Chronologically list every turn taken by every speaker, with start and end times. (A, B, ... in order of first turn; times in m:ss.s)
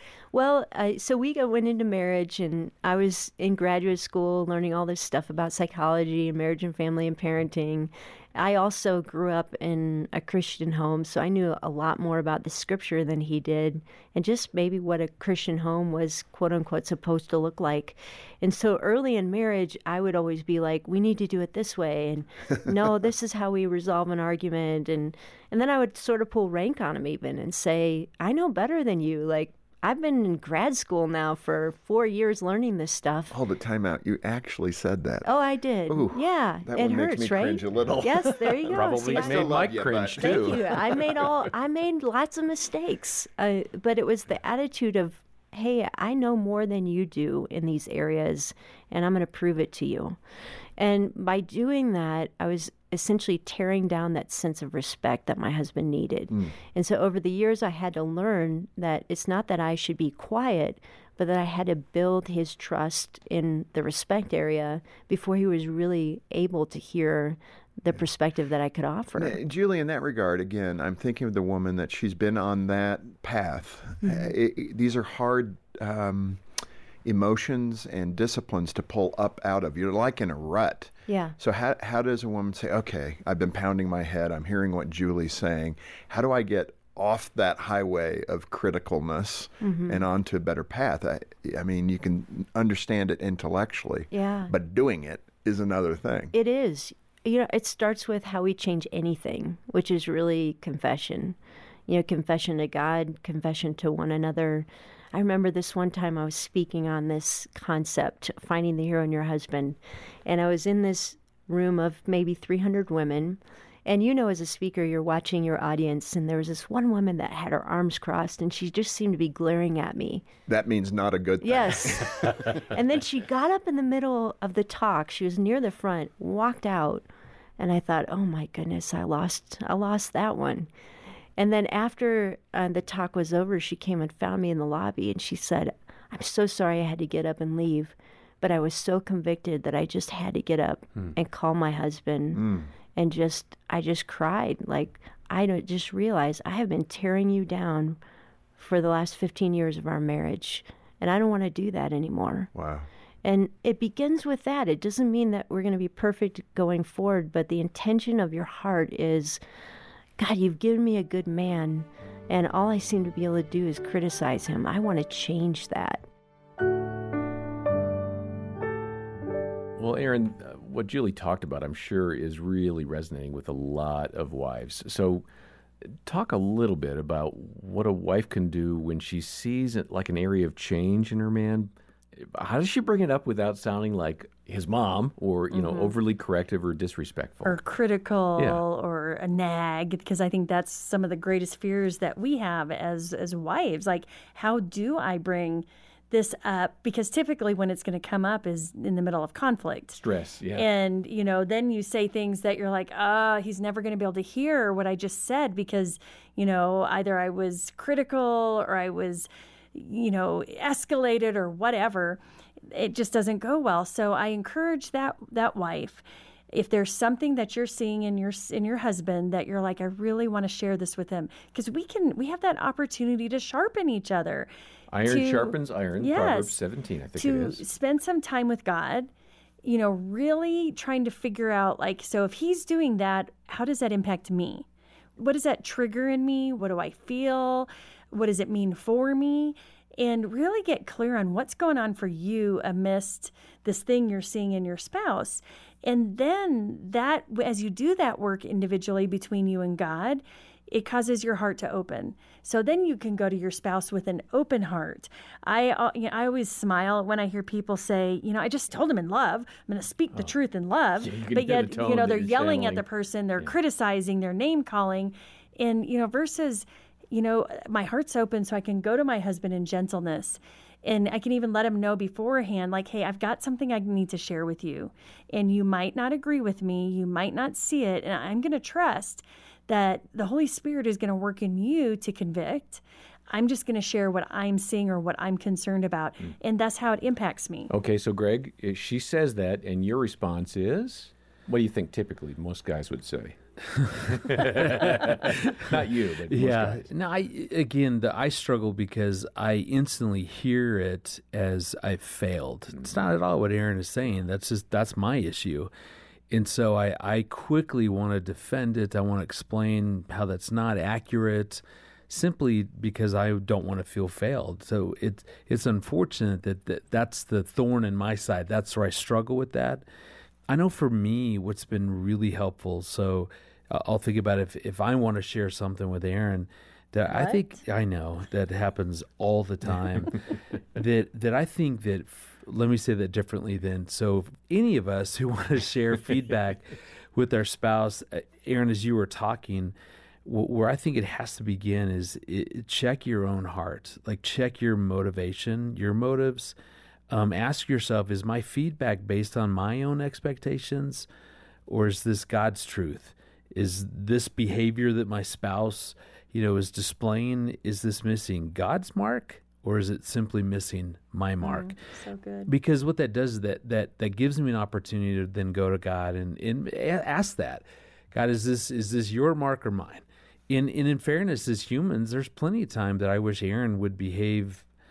0:00.3-0:33.3 A
0:33.3-0:35.3 B
0:35.2-0:39.6 A
0:35.9-0:40.6 B
0:37.8-0:41.1 C
0:40.2-0:50.2 A
0:50.8-1:09.4 A
1:09.2-1:16.4 B
1:14.0-1:14.3 A
1:17.0-1:36.3 B
1:21.1-1:21.4 A
1:29.6-1:30.1 A
1:34.1-1:34.5 A
1:36.3-1:41.4 A
1:41.9-2:00.3 A
2:00.5-2:02.2 B
2:01.4-2:07.1 A
2:07.6-2:10.7 A
2:11.4-2:22.4 A
2:22.3-2:22.7 B
2:23.0-2:28.0 A
2:28.6-2:32.5 A
2:32.5-2:32.9 B
2:33.2-2:39.4 A
2:40.2-2:46.0 A
2:49.8-2:55.2 C
2:55.8-3:07.6 C
3:05.5-3:05.9 A
3:07.4-3:20.0 D
3:08.4-3:08.6 C
3:19.9-3:20.7 C
3:20.5-3:44.5 D
3:44.9-3:47.7 C
3:45.1-3:46.6 D
3:47.2-3:49.1 D
3:49.6-3:54.7 D
3:55.2-4:47.7 D
4:21.0-4:23.5 C
4:47.7-4:53.4 C
4:53.8-4:55.5 E
4:53.9-4:56.9 C
4:56.3-5:05.7 E
5:02.7-5:03.0 C
5:06.3-5:19.8 E
5:20.5-5:30.2 E
5:27.1-5:27.6 D
5:30.8-5:46.6 E
5:47.1-5:51.1 E
5:51.7-6:01.7 E
6:01.4-6:02.5 D
6:02.5-6:14.7 E